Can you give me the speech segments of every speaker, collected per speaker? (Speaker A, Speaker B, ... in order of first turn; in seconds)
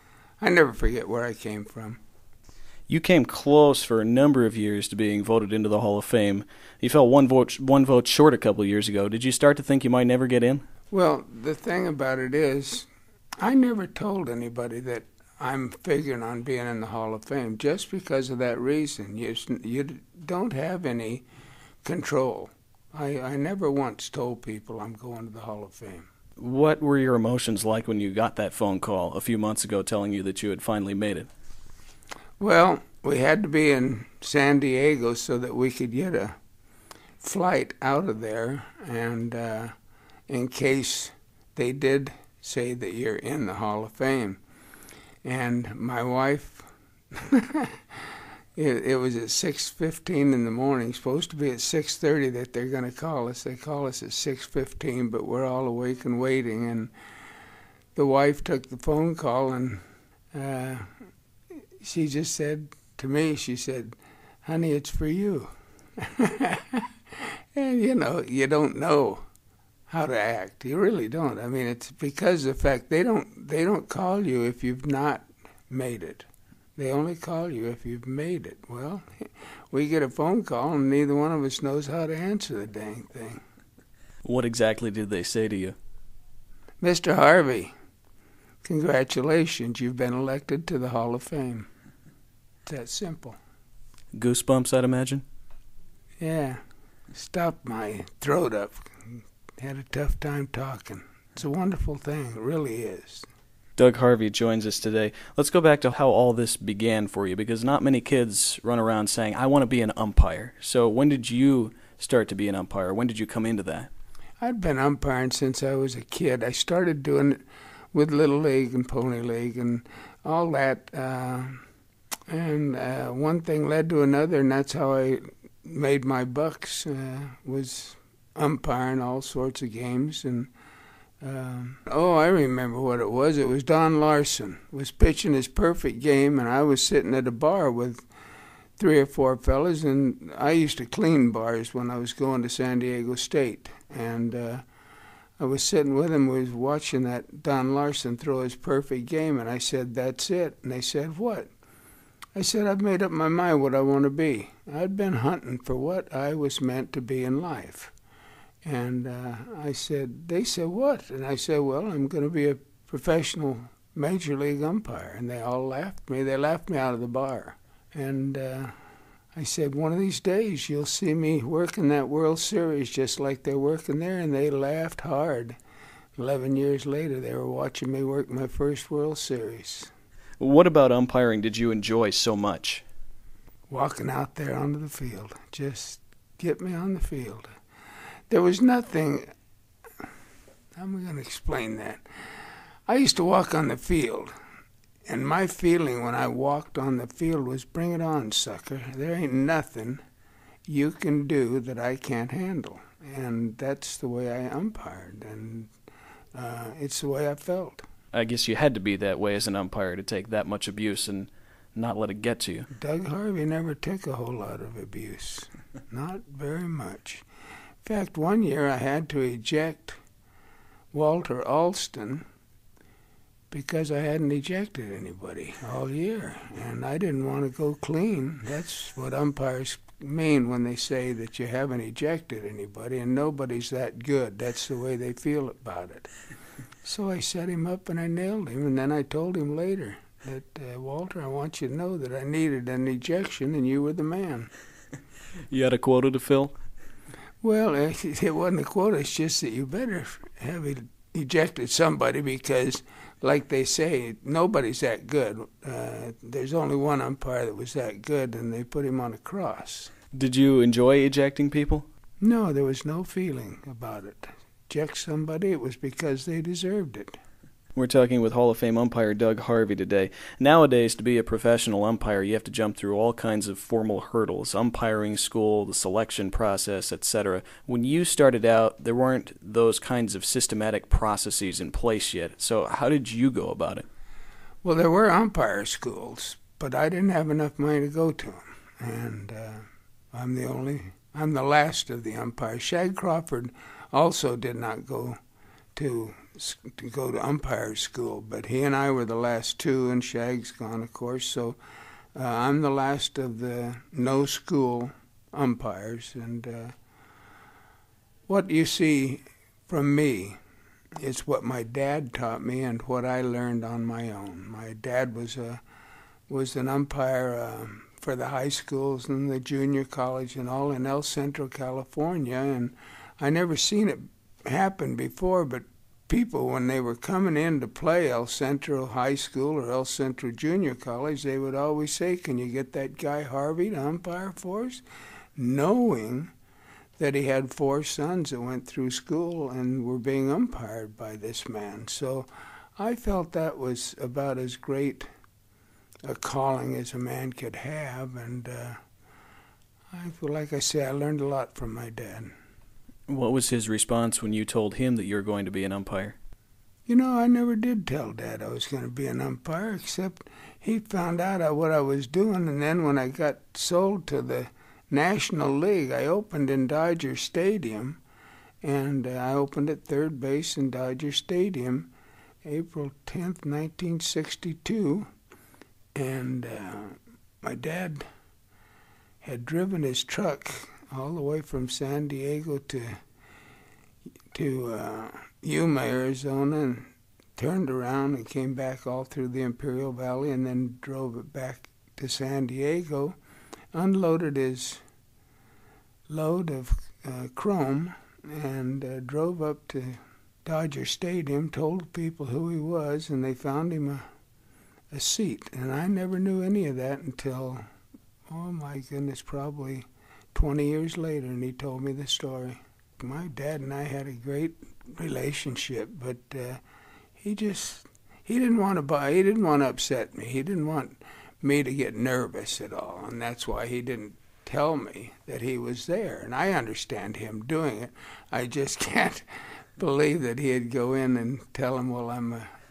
Speaker A: 0.4-2.0, 10.9-12.9, 13.4-21.3, 21.8-26.1, 32.4-36.4, 37.2-39.7, 40.3-44.4, 45.2-48.0, 48.5-56.9, 57.9-59.8, 60.3-60.9, 61.8-69.2, 69.9-79.0, 79.7-83.4, 86.8-87.7, 88.6-91.7, 92.7-93.4, 96.2-96.6, 97.1-103.3, 114.4-117.4, 117.9-121.6, 122.3-130.5, 131.2-138.0, 138.8-144.6, 145.4-151.5, 152.3-157.9, 158.6-168.7, 169.3-175.6, 176.2-179.9, 183.7-187.5, 188.3-189.3, 190.8-192.0, 192.9-194.3, 195.1-200.0, 200.7-205.7, 206.3-207.8, 212.7-217.2, 217.8-220.0, 220.9-222.2, 223.5-236.1, 236.8-244.5, 247.4-259.9, 262.2-267.2, 284.6-295.2, 295.8-301.6, 302.1-306.7, 308.3-310.4, 311.0-315.6, 316.3-334.8, 335.4-336.3, 337.0-345.1, 346.1-348.8, 349.9-352.3, 356.9-368.0, 368.6-371.9, 372.4-375.1, 375.9-378.0, 379.2-383.0, 384.3-393.2, 393.7-394.8, 396.1-404.0, 404.9-407.6, 408.3-416.6, 417.2-432.5
Speaker B: 2.9-10.6, 26.4-31.3, 84.2-85.7, 94.1-95.2, 103.8-113.9, 180.4-182.8, 208.1-212.7, 245.5-246.5, 260.1-261.9, 267.8-283.9, 353.1-356.2